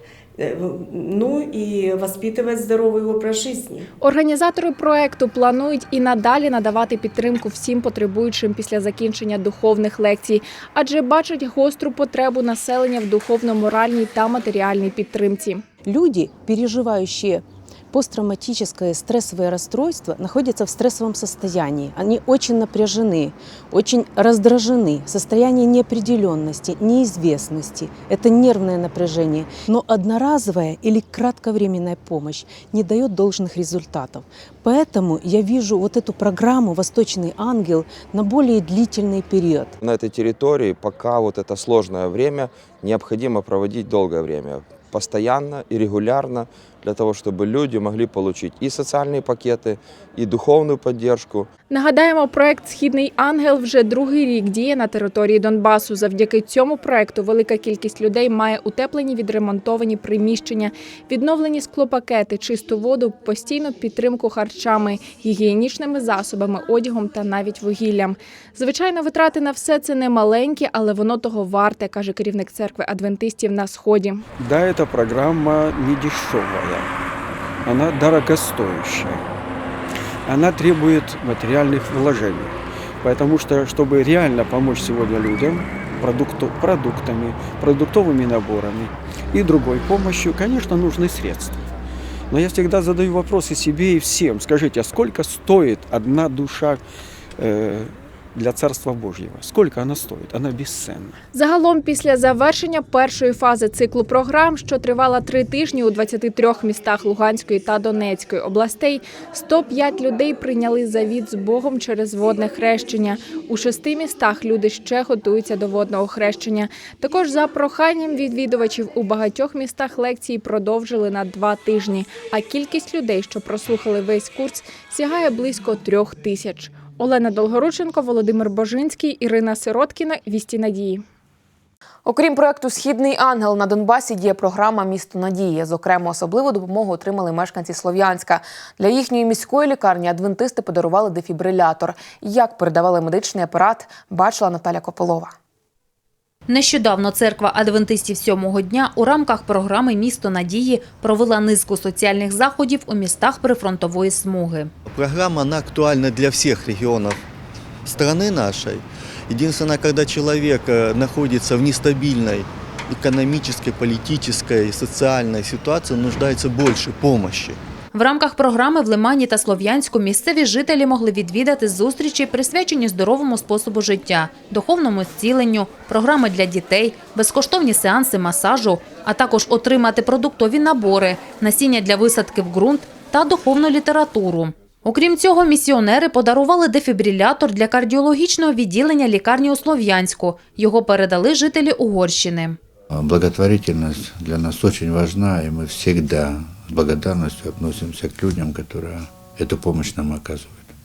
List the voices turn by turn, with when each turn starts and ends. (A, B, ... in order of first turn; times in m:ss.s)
0:00.4-0:03.9 A
0:04.0-0:15.6 B
0:15.9-0:39.7 C
0:39.8-0:51.5 D
0:51.7-1:14.2 B
1:14.4-1:16.9 E
1:17.6-1:19.2 E
1:20.3-1:31.6 E
1:32.3-1:36.8 E
1:37.4-1:41.2 E
1:41.3-2:11.0 B
2:12.1-2:25.3 F
2:26.5-2:34.7 G
2:34.9-2:37.2 H
2:37.9-2:47.6 H
2:47.9-3:12.6 G
3:12.9-3:20.6 I